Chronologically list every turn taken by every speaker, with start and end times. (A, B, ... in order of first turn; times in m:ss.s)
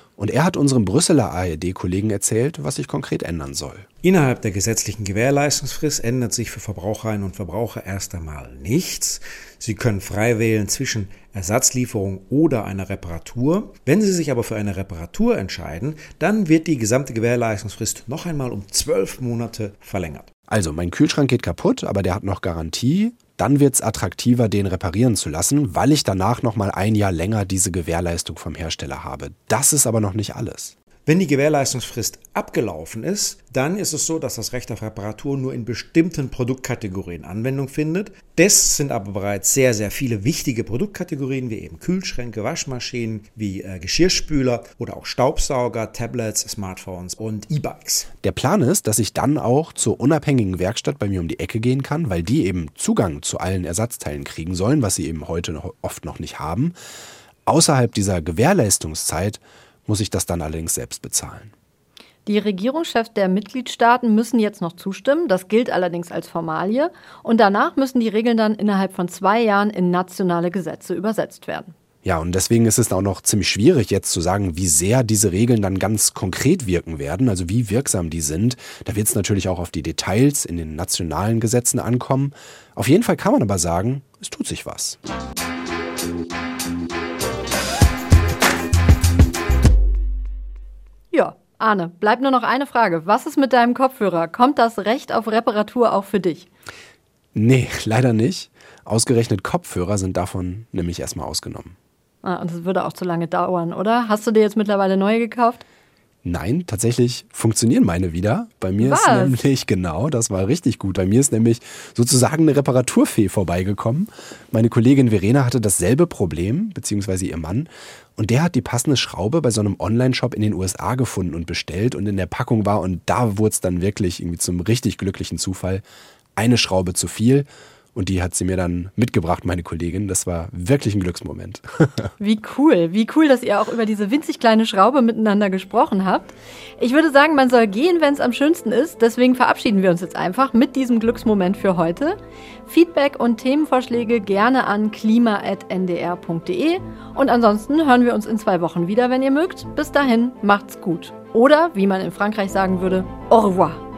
0:00.2-0:03.9 A
0:04.0-0:20.3 B
0:20.5-0:30.7 A
0:31.1-0:48.1 B
0:48.2-0:56.8 A
0:57.4-1:01.5 A
1:02.2-1:11.7 C
1:12.0-1:25.0 A
1:31.1-1:36.5 C
1:37.3-1:41.7 A
1:42.2-1:45.6 C
1:46.2-2:05.8 A
1:48.8-1:49.4 C
2:06.4-2:12.1 A
2:12.2-2:33.8 C